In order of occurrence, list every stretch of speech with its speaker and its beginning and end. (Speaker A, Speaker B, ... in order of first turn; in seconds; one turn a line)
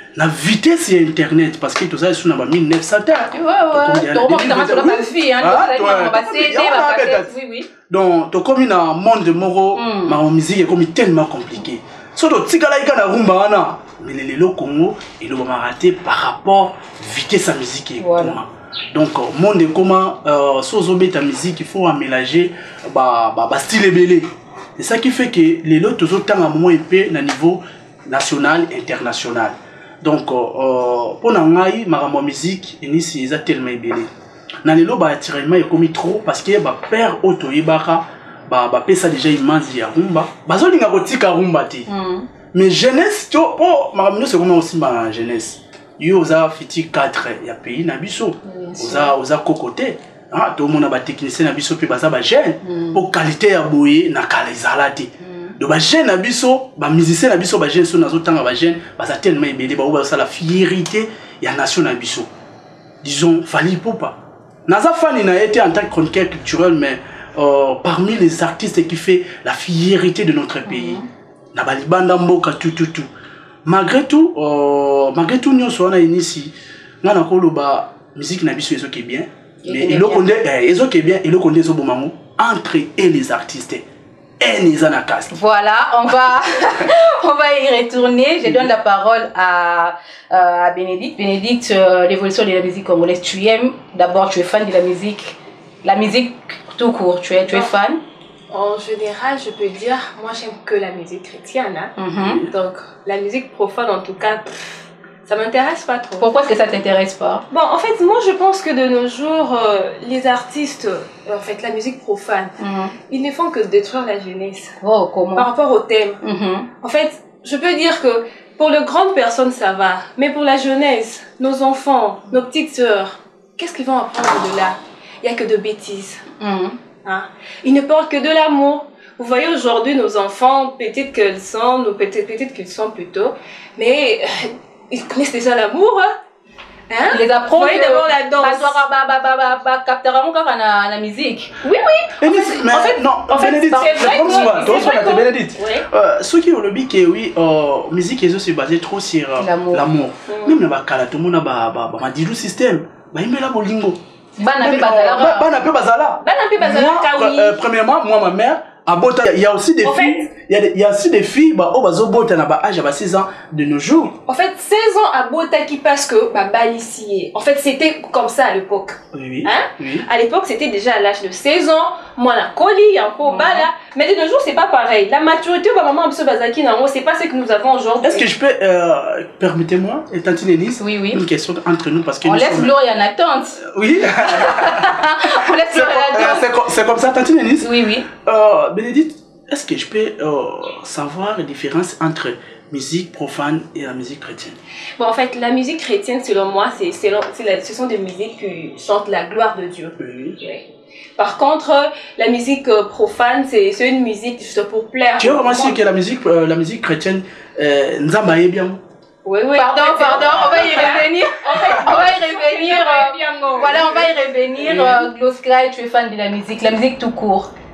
Speaker A: 0.1-34.1
Speaker B: 3.3-7.7
Speaker B: 9.7-10.2
Speaker B: 18.0-18.4
Speaker A: 34.6-41.9
Speaker B: 41.9-42.3
Speaker A: 42.5-62.3
Speaker B: 48.6-49.1
Speaker B: 52.6-53.0
Speaker B: 55.2-55.5
Speaker A: 63.0-71.0
Speaker B: 70.7-71.0
Speaker A: 71.5-73.1
Speaker A: 73.6-83.8
Speaker B: 79.6-80.2
Speaker A: 84.4-85.4
Speaker B: 85.3-98.0
Speaker C: 98.5-101.9
Speaker B: 102.0-102.4
Speaker A: 102.2-102.5
Speaker C: 102.5-104.6
Speaker C: 105.2-106.3
Speaker B: 106.2-107.4
Speaker C: 107.5-112.5
Speaker B: 112.6-112.9
Speaker C: 113.1-114.8
Speaker B: 114.8-115.5
Speaker C: 115.3-116.2
Speaker B: 116.2-116.7
Speaker C: 116.8-126.2
Speaker B: 126.4-126.8
Speaker C: 127.0-136.1
Speaker C: 136.9-138.8
Speaker B: 137.1-141.5
Speaker C: 141.6-145.8
Speaker A: 142.2-154.0
Speaker B: 143.9-144.8
Speaker B: 149.4-149.8
Speaker C: 150.3-150.6
Speaker B: 154.4-155.5
Speaker A: 154.6-164.2
Speaker C: 156.2-157.6
Speaker C: 159.8-160.2
Speaker C: 164.3-178.2
Speaker A: 169.1-170.1
Speaker B: 173.3-173.7
Speaker A: 178.0-182.7
Speaker B: 180.8-181.2
Speaker B: 182.2-183.6
Speaker A: 183.6-194.6
Speaker B: 184.2-186.4
Speaker B: 187.6-188.1
Speaker C: 195.0-200.7
Speaker A: 200.0-200.4
Speaker C: 201.2-205.8
Speaker A: 205.2-208.8
Speaker C: 209.2-214.1
Speaker B: 209.5-217.5
Speaker A: 211.7-212.0
Speaker A: 214.6-215.0